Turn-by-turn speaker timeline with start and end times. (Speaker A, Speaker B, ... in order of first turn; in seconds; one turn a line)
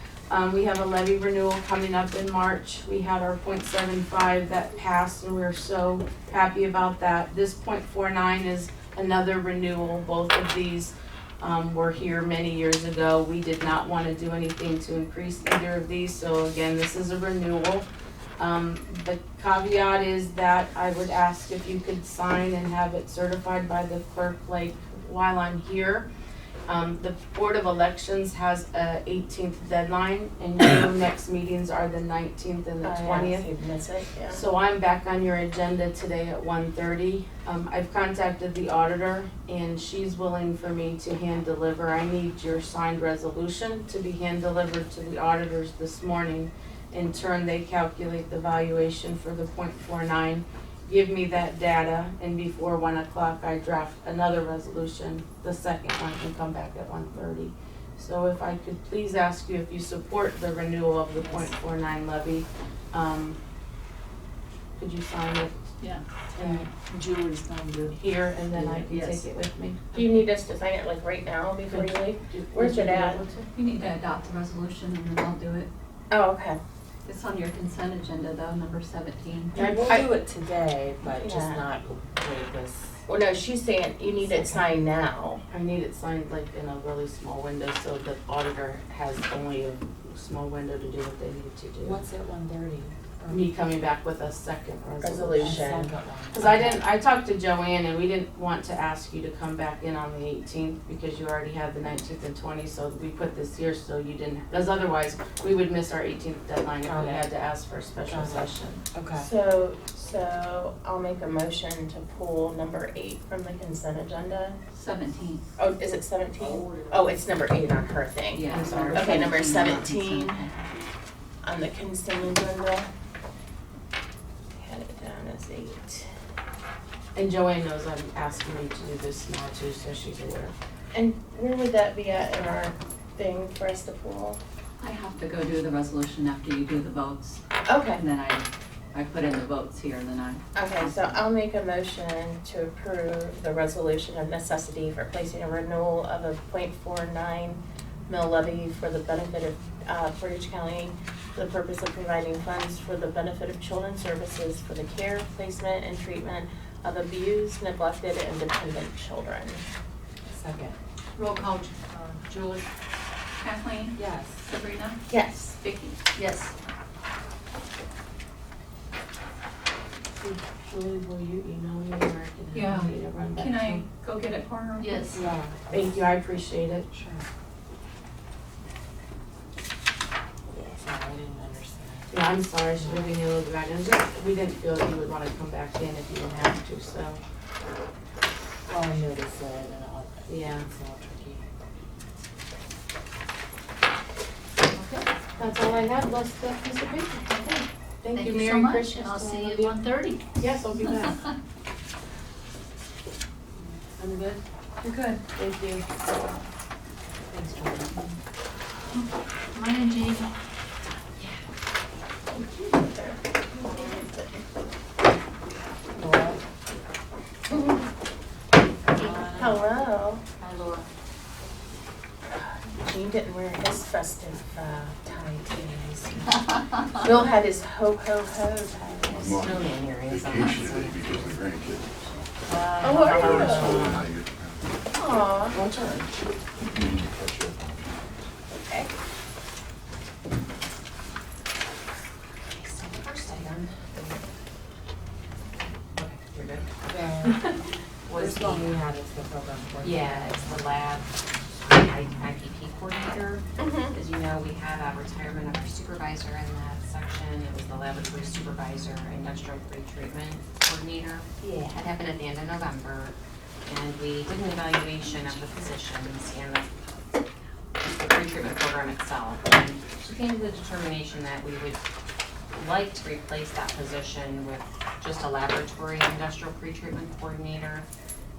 Speaker A: 0.3-17.9
Speaker A: 18.4-26.1
Speaker A: 26.7-33.5
Speaker B: 32.8-34.4
Speaker A: 34.3-63.4
Speaker A: 64.8-65.5
Speaker C: 66.3-68.0
Speaker A: 66.4-66.7
Speaker A: 67.9-69.9
Speaker D: 68.9-69.2
Speaker B: 69.9-73.2
Speaker A: 71.7-73.5
Speaker D: 73.5-75.7
Speaker B: 76.1-76.6
Speaker D: 77.0-79.6
Speaker C: 79.5-83.1
Speaker A: 79.5-80.0
Speaker B: 79.6-80.0
Speaker B: 81.0-81.7
Speaker B: 83.1-85.4
Speaker C: 84.3-84.6
Speaker A: 85.5-92.0
Speaker C: 91.8-93.5
Speaker A: 93.3-108.8
Speaker B: 95.0-95.9
Speaker C: 95.3-96.9
Speaker C: 106.8-107.3
Speaker C: 108.1-109.3
Speaker B: 109.2-114.6
Speaker D: 114.7-115.4
Speaker B: 115.6-120.5
Speaker D: 118.3-120.6
Speaker A: 118.5-119.4
Speaker B: 121.4-122.9
Speaker B: 124.6-126.1
Speaker A: 127.2-130.5
Speaker B: 130.9-134.4
Speaker D: 134.8-140.4
Speaker B: 137.7-138.0
Speaker B: 140.6-159.6
Speaker C: 160.3-160.8
Speaker E: 161.2-162.6
Speaker D: 163.4-165.0
Speaker C: 164.0-164.4
Speaker B: 165.1-165.6
Speaker D: 165.6-166.0
Speaker E: 166.1-166.5
Speaker A: 170.2-173.8
Speaker D: 172.5-175.2
Speaker E: 174.8-175.2
Speaker C: 175.1-175.9
Speaker A: 175.7-176.9
Speaker C: 176.9-177.3
Speaker C: 180.5-182.1
Speaker A: 182.1-187.2
Speaker C: 182.8-183.1
Speaker C: 188.7-191.4
Speaker A: 190.3-190.7
Speaker D: 194.8-195.1
Speaker A: 195.4-199.8
Speaker E: 198.2-200.3
Speaker A: 200.4-201.3
Speaker A: 204.0-204.4
Speaker D: 204.8-205.2
Speaker A: 205.3-205.8
Speaker C: 207.3-207.9
Speaker E: 209.6-210.2
Speaker D: 209.6-210.3
Speaker B: 212.3-214.4
Speaker C: 215.9-216.4
Speaker B: 217.5-217.9
Speaker C: 218.9-219.7
Speaker B: 219.3-220.2
Speaker E: 220.4-220.9
Speaker B: 222.4-229.2
Speaker F: 229.1-234.1
Speaker G: 229.1-231.9
Speaker B: 232.8-233.9
Speaker G: 233.0-234.8
Speaker B: 234.9-235.6
Speaker G: 236.6-238.2
Speaker B: 238.5-238.9
Speaker F: 242.4-244.2
Speaker F: 245.9-247.3
Speaker C: 246.9-247.4
Speaker F: 248.1-248.9
Speaker C: 248.1-250.4
Speaker F: 249.8-266.9
Speaker B: 253.6-253.9
Speaker C: 265.3-265.6
Speaker F: 267.9-271.8
Speaker F: 272.5-277.9